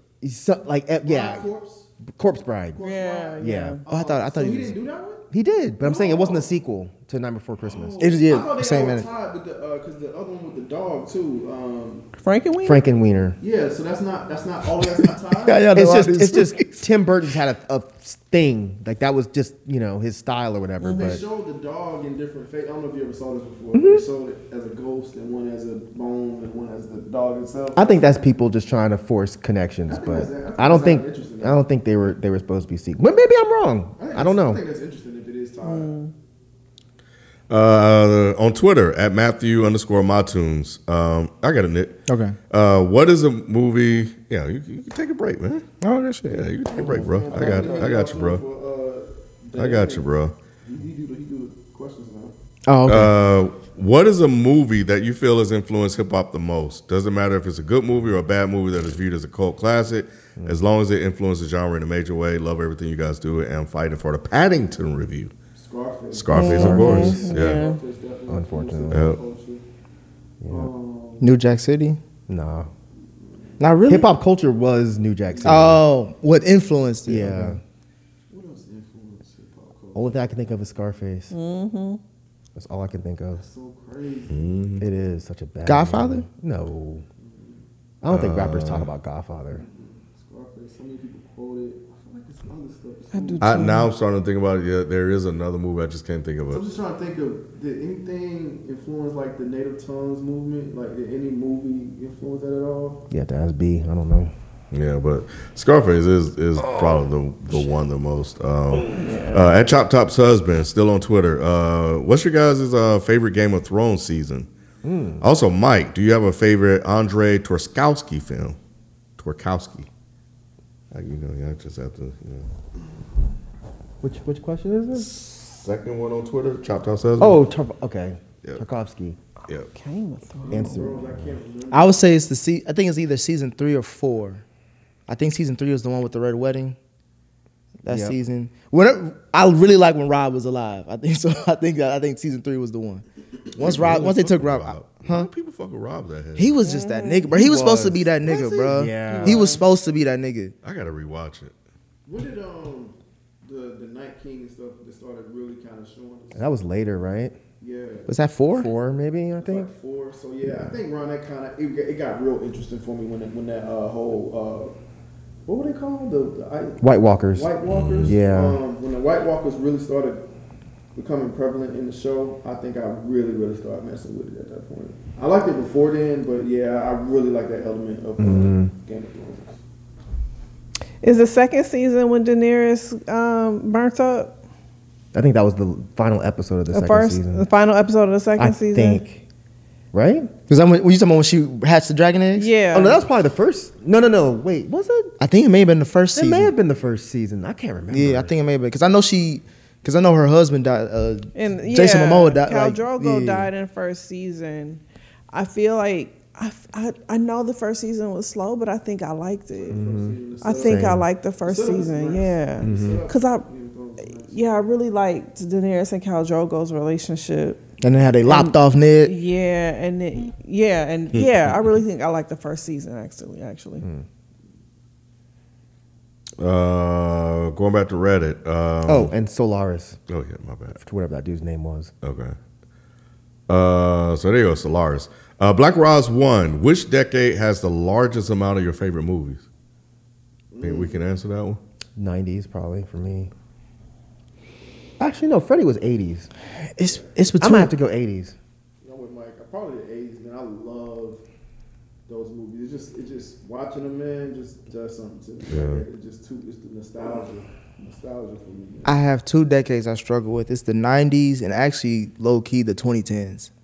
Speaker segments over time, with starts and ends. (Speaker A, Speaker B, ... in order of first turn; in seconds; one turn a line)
Speaker A: 0.2-1.5
Speaker B: 1.0-1.9
Speaker A: 2.0-2.8
Speaker B: 2.7-5.2
Speaker C: 2.8-3.8
Speaker A: 3.4-3.8
Speaker D: 3.9-4.8
Speaker A: 5.3-8.0
Speaker B: 5.8-6.5
Speaker B: 7.6-12.1
Speaker D: 8.0-9.1
Speaker C: 12.2-12.8
Speaker A: 12.6-13.4
Speaker B: 13.4-15.7
Speaker D: 15.4-16.7
Speaker A: 15.7-21.2
Speaker B: 20.8-28.1
Speaker A: 23.7-24.0
Speaker A: 27.7-34.6
Speaker B: 29.9-31.6
Speaker B: 34.0-35.9
Speaker C: 35.6-36.1
Speaker E: 37.5-45.6
Speaker D: 42.1-42.4
Speaker D: 45.8-46.5
Speaker E: 46.2-48.4
Speaker B: 46.7-50.1
Speaker A: 47.3-47.7
Speaker E: 49.5-50.3
Speaker B: 50.6-52.4
Speaker D: 52.7-53.1
Speaker E: 52.9-65.3
Speaker B: 65.5-69.6
Speaker E: 66.1-67.6
Speaker C: 66.3-67.8
Speaker A: 66.4-67.2
Speaker D: 66.5-67.1
Speaker A: 68.3-69.0
Speaker E: 68.9-69.2
Speaker A: 70.4-70.7
Speaker B: 70.5-71.3
Speaker D: 71.2-72.0
Speaker A: 72.3-72.7
Speaker B: 73.2-73.5
Speaker D: 73.6-74.1
Speaker A: 73.9-75.8
Speaker B: 75.3-75.8
Speaker D: 75.4-77.6
Speaker A: 77.1-77.6
Speaker B: 78.3-80.3
Speaker A: 79.9-81.3
Speaker C: 81.3-82.0
Speaker A: 82.5-83.4
Speaker B: 83.4-84.5
Speaker E: 84.3-84.8
Speaker A: 84.8-87.0
Speaker D: 85.6-86.2
Speaker B: 87.2-87.6
Speaker A: 88.0-89.6
Speaker E: 88.1-88.9
Speaker B: 89.5-93.5
Speaker C: 93.1-93.9
Speaker E: 93.4-96.6
Speaker B: 96.5-103.0
Speaker A: 103.1-104.3
Speaker E: 104.7-114.5
Speaker C: 108.9-109.4
Speaker A: 114.8-115.2
Speaker E: 115.2-118.6
Speaker E: 119.2-119.9
Speaker E: 120.9-122.5
Speaker A: 124.0-125.1
Speaker E: 124.9-127.4
Speaker A: 127.2-129.2
Speaker C: 129.7-130.9
Speaker A: 130.5-131.3
Speaker B: 130.5-132.1
Speaker D: 131.7-134.4
Speaker D: 135.1-136.8
Speaker D: 137.8-143.0
Speaker A: 137.9-138.2
Speaker D: 143.6-145.3
Speaker E: 143.6-146.5
Speaker D: 146.3-150.5
Speaker C: 146.6-147.3
Speaker A: 147.3-149.6
Speaker C: 149.1-149.6
Speaker E: 150.6-151.5
Speaker B: 152.1-156.5
Speaker A: 156.3-157.4
Speaker B: 157.6-158.1
Speaker D: 158.1-158.7
Speaker A: 158.5-159.7
Speaker B: 159.4-164.7
Speaker A: 160.4-160.8
Speaker B: 165.5-166.8
Speaker A: 166.8-168.6
Speaker B: 167.3-170.2
Speaker E: 167.7-168.1
Speaker B: 170.9-179.6
Speaker A: 178.2-178.7
Speaker C: 181.0-184.3
Speaker A: 185.1-187.5
Speaker C: 186.7-189.0
Speaker A: 188.4-189.2
Speaker A: 189.9-190.3
Speaker D: 190.5-192.5
Speaker C: 192.3-193.0
Speaker A: 192.7-195.1
Speaker D: 195.2-196.5
Speaker A: 196.1-198.3
Speaker D: 197.9-203.5
Speaker C: 201.3-209.8
Speaker B: 209.7-210.9
Speaker A: 209.7-211.1
Speaker C: 210.4-213.5
Speaker B: 211.4-214.5
Speaker A: 212.6-213.1
Speaker C: 214.0-217.6
Speaker D: 217.8-219.1
Speaker C: 218.2-223.8
Speaker E: 221.1-221.5
Speaker E: 226.4-229.1
Speaker A: 228.8-230.0
Speaker E: 230.1-230.8
Speaker A: 230.8-231.9
Speaker E: 232.0-232.3
Speaker E: 233.5-239.4
Speaker B: 240.5-241.1
Speaker E: 240.6-241.6
Speaker A: 241.9-243.3
Speaker A: 245.0-246.3
Speaker D: 246.6-247.7
Speaker A: 247.4-248.3
Speaker B: 248.8-251.2
Speaker B: 252.1-259.0
Speaker E: 255.5-255.8
Speaker D: 258.8-263.5